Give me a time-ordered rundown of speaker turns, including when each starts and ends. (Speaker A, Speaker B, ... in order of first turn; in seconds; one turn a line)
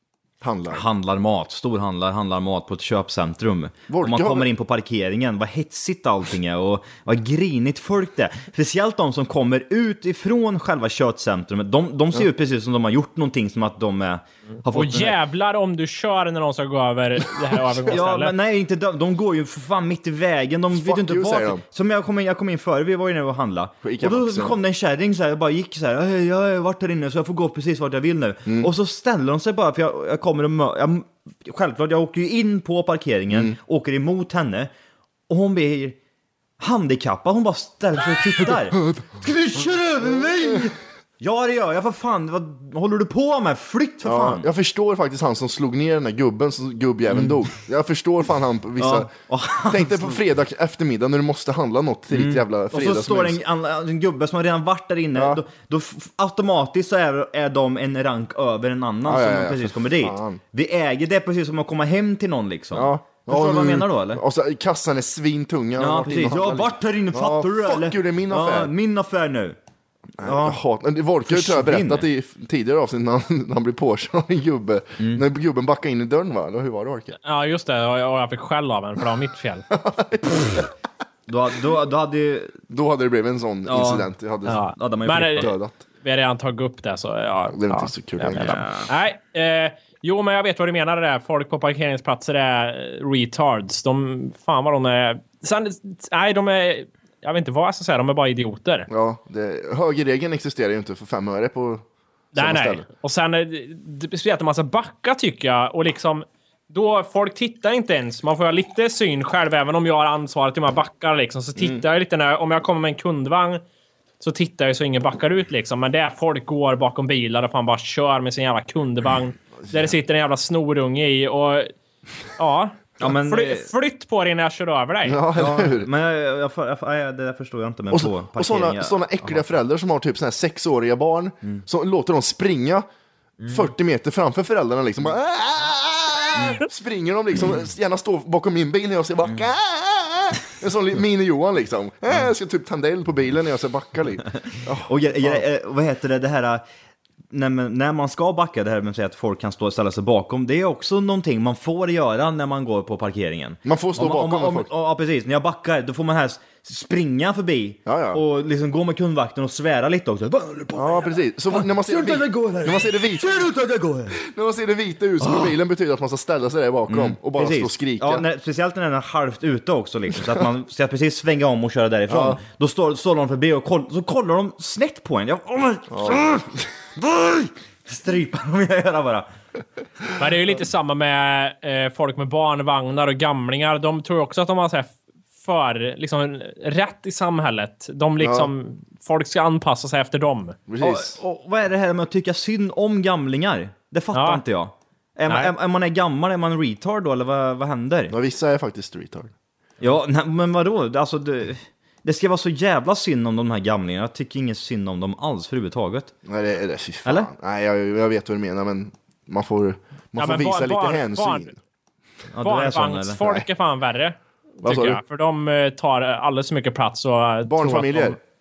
Speaker A: 0.4-0.8
Speaker B: 0.7-15.2
Speaker A: 3.9-4.5
Speaker C: 14.7-18.3
Speaker B: 17.9-34.7
Speaker A: 20.7-21.6
Speaker A: 23.8-24.6
Speaker A: 33.3-33.6
Speaker B: 35.3-36.0
Speaker B: 36.6-44.5
Speaker A: 38.7-39.0
Speaker A: 44.0-49.1
Speaker B: 47.1-47.5
Speaker B: 48.8-50.2
Speaker A: 49.7-53.4
Speaker B: 52.1-64.2
Speaker A: 55.1-55.4
Speaker A: 59.1-60.4
Speaker A: 62.7-68.7
Speaker B: 65.8-69.6
Speaker B: 70.2-70.6
Speaker A: 70.2-77.2
Speaker B: 71.2-72.1
Speaker B: 75.0-75.2
Speaker C: 77.2-79.7
Speaker A: 79.7-80.7
Speaker B: 81.3-82.6
Speaker A: 82.7-84.6
Speaker B: 83.7-84.1
Speaker C: 84.5-85.5
Speaker B: 84.7-85.6
Speaker A: 85.3-85.8
Speaker C: 86.0-98.9
Speaker A: 87.5-88.6
Speaker B: 88.3-88.9
Speaker A: 98.9-102.9
Speaker C: 102.3-113.6
Speaker A: 111.6-111.8
Speaker C: 114.2-121.7
Speaker A: 119.6-119.9
Speaker C: 122.4-125.2
Speaker B: 123.0-123.7
Speaker A: 125.0-125.9
Speaker B: 125.4-129.4
Speaker A: 127.9-132.9
Speaker A: 133.4-145.4
Speaker B: 136.4-136.6
Speaker B: 144.8-146.6
Speaker B: 147.3-164.2
Speaker A: 153.6-154.7
Speaker A: 157.9-158.2
Speaker A: 160.7-163.4
Speaker A: 164.1-168.2
Speaker B: 165.2-165.5
Speaker B: 166.9-179.3
Speaker A: 172.1-172.4
Speaker A: 175.9-176.6
Speaker C: 180.2-190.6
Speaker A: 188.2-188.5
Speaker A: 190.7-191.2
Speaker B: 190.8-198.1
Speaker C: 194.1-194.4
Speaker A: 198.1-199.3
Speaker B: 199.8-206.1
Speaker A: 206.2-211.6
Speaker B: 207.0-207.3
Speaker C: 210.2-211.5
Speaker B: 212.3-213.2
Speaker C: 212.4-218.2
Speaker A: 213.2-213.4
Speaker A: 214.6-215.0
Speaker A: 217.4-218.2